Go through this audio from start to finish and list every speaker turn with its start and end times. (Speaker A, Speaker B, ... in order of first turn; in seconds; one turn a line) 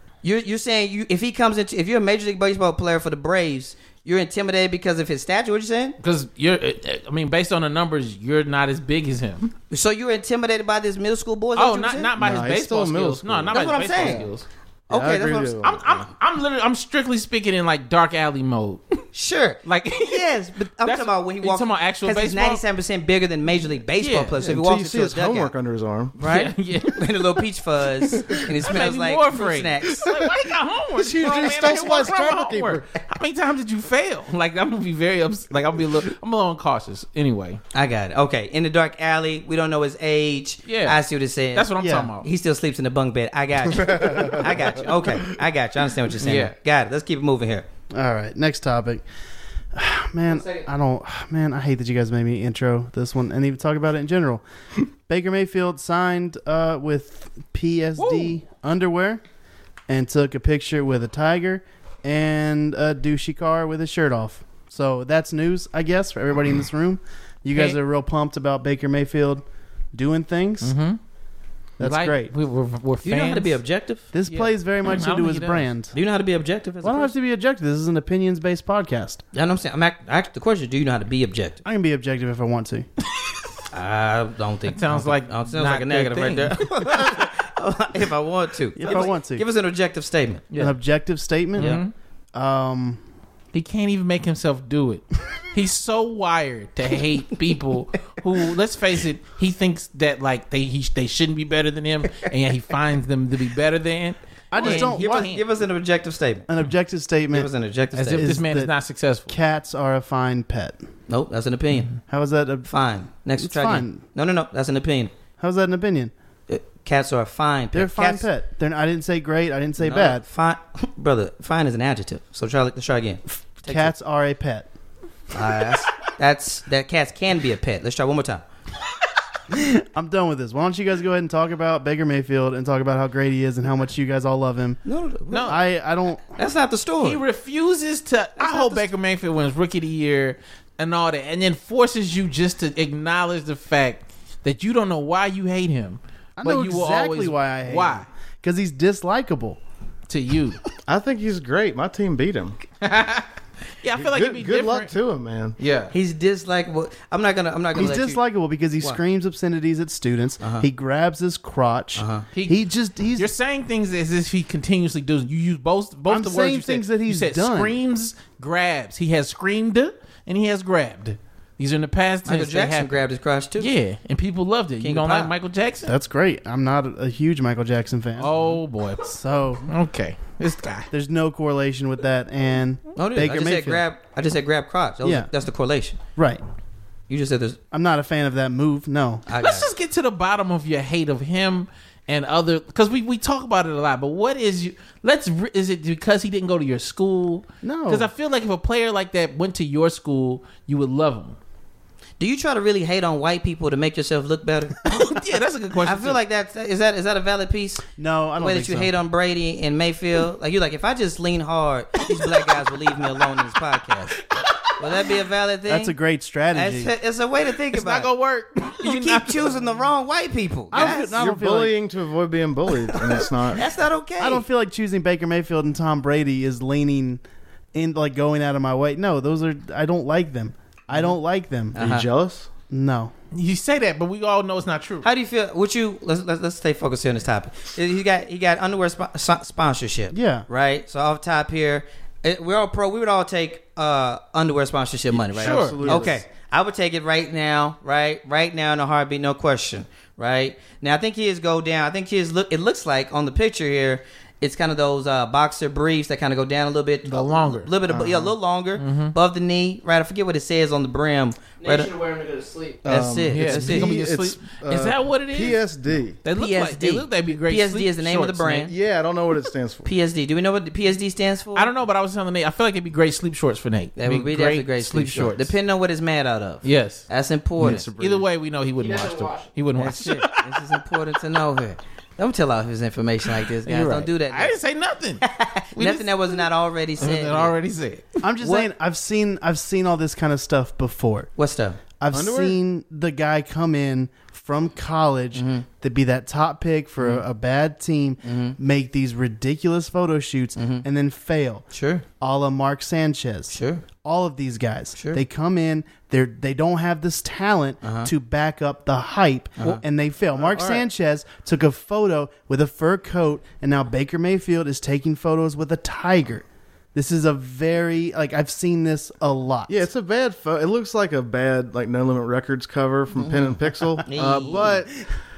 Speaker A: 0.2-6.0
Speaker B: 6.0-9.5
Speaker A: 9.7-12.1
Speaker B: 11.6-14.4
Speaker C: 12.2-14.3
Speaker A: 13.5-14.2
Speaker A: 14.9-15.6
Speaker C: 14.9-16.0
Speaker B: 15.6-18.9
Speaker A: 19.1-25.5
Speaker B: 19.6-20.3
Speaker B: 20.8-22.6
Speaker B: 24.0-24.4
Speaker C: 24.4-26.1
Speaker A: 26.2-30.1
Speaker B: 26.2-27.2
Speaker B: 28.2-37.6
Speaker C: 30.0-30.4
Speaker C: 30.9-32.9
Speaker A: 37.7-47.6
Speaker B: 40.6-41.0
Speaker B: 41.5-42.2
Speaker D: 41.8-42.1
Speaker B: 46.2-46.5
Speaker D: 47.9-49.0
Speaker D: 49.7-54.4
Speaker D: 55.1-59.2
Speaker B: 58.0-58.4
Speaker D: 59.9-70.7
Speaker B: 67.5-67.8
Speaker B: 70.6-71.0
Speaker D: 71.8-72.3
Speaker B: 71.8-73.6
Speaker A: 73.0-74.0
Speaker D: 74.1-75.9
Speaker B: 74.3-75.7
Speaker A: 75.9-77.1
Speaker D: 76.8-79.2
Speaker A: 79.3-81.6
Speaker D: 81.6-82.9
Speaker A: 83.7-90.5
Speaker B: 84.7-87.2
Speaker D: 88.8-89.4
Speaker D: 90.5-91.8
Speaker B: 91.6-91.9
Speaker A: 91.6-91.8
Speaker D: 92.3-93.0
Speaker B: 93.5-105.4
Speaker D: 104.5-105.3
Speaker A: 104.6-106.5
Speaker D: 106.5-107.5
Speaker A: 107.3-108.3
Speaker B: 107.9-109.3
Speaker D: 108.1-108.7
Speaker D: 109.3-110.8
Speaker A: 111.1-111.9
Speaker D: 112.1-112.7
Speaker A: 112.7-115.1
Speaker D: 113.4-114.0
Speaker D: 115.4-116.1
Speaker A: 116.5-118.3
Speaker D: 117.7-120.2
Speaker A: 119.8-123.9
Speaker D: 123.5-124.7
Speaker A: 125.3-128.4
Speaker D: 129.5-134.8
Speaker A: 134.8-135.6
Speaker B: 135.3-135.6
Speaker D: 135.4-136.2
Speaker A: 136.3-137.2
Speaker B: 137.0-148.1
Speaker A: 138.4-138.9
Speaker D: 146.4-149.6
Speaker B: 150.1-150.6
Speaker C: 150.9-152.6
Speaker B: 152.8-153.3
Speaker B: 153.8-154.9
Speaker C: 153.9-155.6
Speaker B: 155.6-155.9
Speaker A: 155.9-158.2
Speaker D: 157.7-163.3
Speaker A: 160.4-160.7
Speaker A: 161.9-162.2
Speaker B: 163.2-173.0
Speaker D: 166.1-167.8
Speaker A: 172.2-173.7
Speaker B: 173.6-175.9
Speaker A: 174.8-175.3
Speaker D: 175.8-178.3
Speaker B: 178.2-179.1
Speaker D: 179.1-179.6
Speaker B: 179.7-180.9
Speaker D: 180.9-183.8
Speaker A: 182.9-186.0
Speaker D: 185.0-185.3
Speaker D: 186.2-186.4
Speaker A: 187.1-187.6
Speaker D: 187.7-189.2
Speaker A: 189.3-189.7
Speaker B: 189.4-201.3
Speaker D: 197.6-198.1
Speaker A: 202.2-204.9
Speaker B: 204.8-206.2
Speaker A: 205.8-207.8
Speaker D: 208.0-208.9
Speaker A: 208.4-214.2
Speaker A: 214.8-215.9
Speaker D: 215.7-216.9
Speaker A: 216.5-218.1
Speaker B: 217.7-219.5
Speaker A: 218.8-221.1
Speaker D: 220.7-221.8
Speaker C: 220.7-223.7
Speaker A: 223.5-224.4
Speaker D: 224.2-227.2
Speaker D: 227.7-231.8
Speaker A: 231.7-232.1
Speaker C: 231.8-232.5
Speaker D: 232.7-233.1
Speaker B: 233.3-235.1
Speaker A: 235.0-261.9
Speaker D: 240.1-240.5
Speaker C: 245.1-246.2
Speaker B: 245.4-246.1
Speaker B: 257.1-257.7
Speaker C: 257.9-258.3
Speaker B: 258.8-259.1
Speaker E: 261.6-262.8
Speaker A: 262.8-263.9
Speaker C: 262.8-266.2
Speaker B: 263.3-265.6
Speaker B: 266.2-268.7
Speaker A: 266.3-268.7
Speaker C: 268.7-269.9
Speaker A: 269.8-271.7
Speaker B: 271.5-275.5
Speaker A: 274.0-277.8
Speaker B: 276.6-277.0
Speaker B: 277.6-280.5
Speaker C: 277.6-278.3
Speaker E: 278.8-279.5
Speaker A: 279.8-284.5
Speaker B: 283.6-286.4
Speaker A: 285.2-287.5
Speaker B: 287.0-288.2
Speaker D: 288.2-291.3
Speaker A: 288.4-288.7
Speaker A: 291.4-291.8
Speaker D: 292.0-301.6
Speaker C: 292.1-292.6
Speaker A: 295.3-295.6
Speaker A: 298.2-298.6
Speaker A: 300.6-300.8
Speaker A: 301.7-302.0
Speaker D: 302.2-319.8
Speaker A: 303.5-303.8
Speaker A: 305.0-305.2
Speaker A: 307.8-308.1
Speaker C: 310.4-310.8
Speaker C: 319.7-325.0
Speaker A: 323.2-324.7
Speaker B: 324.2-324.7